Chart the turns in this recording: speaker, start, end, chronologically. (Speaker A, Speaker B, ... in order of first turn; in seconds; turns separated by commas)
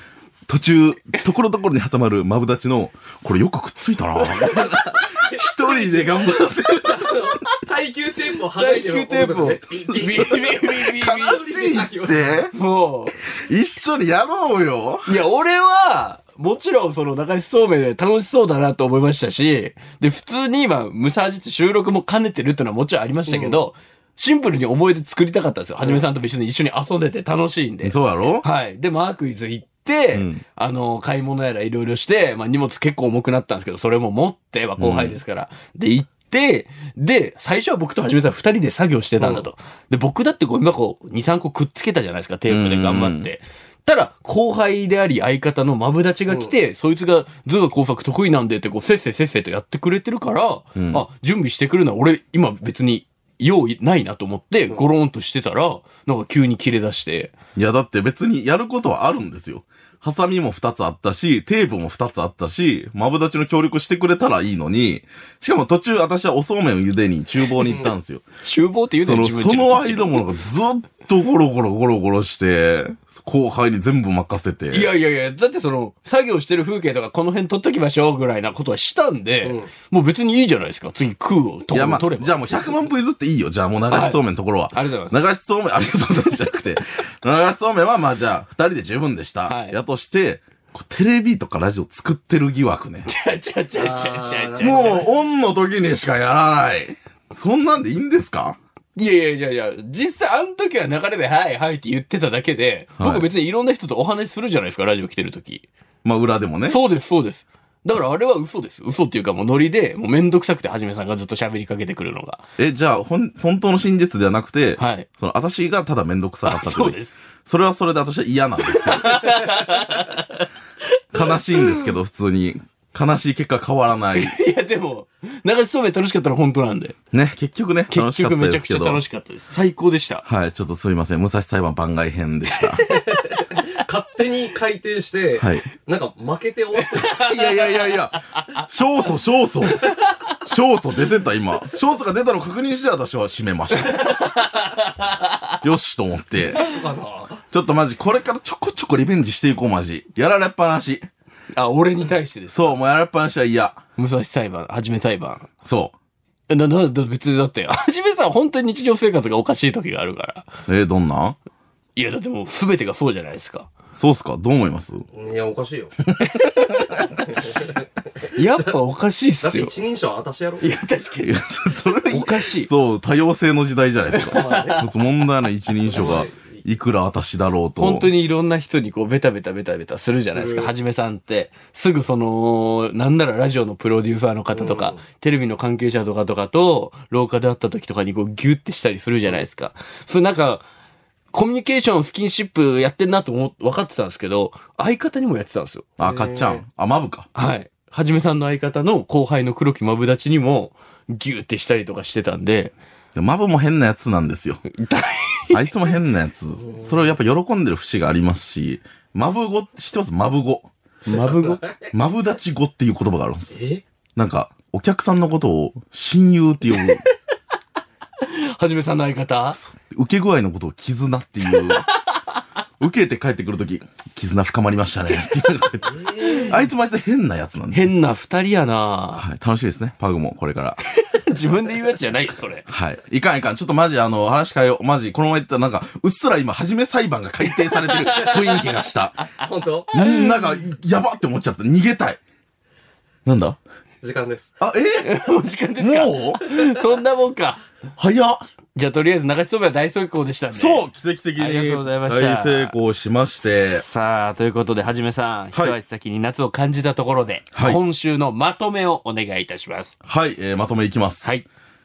Speaker A: 0.5-7.4, Speaker B: 4.2-5.0, Speaker C: 5.6-12.5, Speaker B: 8.6-11.4, Speaker A: 9.9-12.5, Speaker B: 12.5-13.2, Speaker A: 13.3-15.2, Speaker B: 15.1-57.3, Speaker C: 23.3-23.6, Speaker A: 27.8-28.5, Speaker A: 30.1-30.4, Speaker A: 34.8-35.2, Speaker A: 42.5-43.3, Speaker C: 46.3-46.5, Speaker A: 50.8-51.1, Speaker A: 57.6-68.2, Speaker C: 67.6-67.9, Speaker B: 68.4-70.2, Speaker A: 69.0-74.9, Speaker B: 74.7-82.4, Speaker C: 79.4-79.7, Speaker A: 81.7-93.1, Speaker B: 83.9-84.2, Speaker B: 84.7-85.2, Speaker B: 89.5-89.8, Speaker B: 93.1-95.0, Speaker C: 93.8-95.1, Speaker A: 94.6-98.6, Speaker B: 99.0-105.7, Speaker A: 103.0-103.3, Speaker A: 106.0-106.8, Speaker B: 106.7-112.4, Speaker A: 112.6-119.3, Speaker B: 114.8-115.1, Speaker B: 116.5-117.2, Speaker B: 118.8-120.5, Speaker A: 121.1-124.4, Speaker B: 121.5-121.8, Speaker B: 124.2-127.0, Speaker A: 127.1-129.0, Speaker B: 127.9-130.2, Speaker A: 130.2-132.8, Speaker B: 132.8-133.7, Speaker C: 132.9-137.7, Speaker A: 135.4-135.7, Speaker A: 137.1-144.2, Speaker B: 143.9-145.6, Speaker A: 145.6-146.6, Speaker C: 146.5-147.4, Speaker A: 147.5-151.1, Speaker B: 151.6-152.7, Speaker A: 152.5-153.8, Speaker B: 154.0-155.5, Speaker A: 155.7-155.9, Speaker B: 156.5-160.5, Speaker A: 160.7-161.4, Speaker B: 162.0-163.7, Speaker A: 163.9-165.1, Speaker C: 165.2-165.9, Speaker A: 166.1-166.5, Speaker B: 166.3-167.3, Speaker C: 167.2-168.8, Speaker B: 168.3-169.7, Speaker C: 169.4-170.7, Speaker B: 170.6-171.4, Speaker A: 171.2-178.1, Speaker B: 172.1-172.7, Speaker C: 174.2-174.9, Speaker B: 174.3-174.8, Speaker C: 175.8-176.6, Speaker B: 177.8-190.6, Speaker C: 180.3-180.7, Speaker C: 184.5-185.0, Speaker B: 191.3-195.9, Speaker A: 196.0-197.3, Speaker C: 196.0-196.6, Speaker B: 197.3-202.8, Speaker A: 203.2-204.6, Speaker B: 204.7-205.7, Speaker A: 205.5-210.7, Speaker C: 206.6-207.1, Speaker B: 211.1-211.7, Speaker C: 211.1-211.7, Speaker A: 211.9-213.5, Speaker C: 213.5-213.8, Speaker A: 214.2-217.0, Speaker B: 218.2-219.6, Speaker A: 219.5-221.9, Speaker A: 222.8-227.9, Speaker C: 225.8-226.7, Speaker B: 227.7-229.3, Speaker A: 229.2-230.8, Speaker B: 230.9-232.7, Speaker A: 232.7-239.2, Speaker B: 237.7-238.7, Speaker B: 239.4-240.6, Speaker C: 239.4-239.9, Speaker A: 239.9-242.2, Speaker A: 243.3-243.6, Speaker C: 244.0-244.5, Speaker A: 244.6-245.1, Speaker B: 245.0-247.7, Speaker A: 245.8-246.5, Speaker A: 248.0-248.4, Speaker B: 248.8-250.8, Speaker A: 250.5-253.8, Speaker B: 251.4-252.8, Speaker B: 253.5-259.9, Speaker A: 257.5-257.8, Speaker A: 260.1-261.4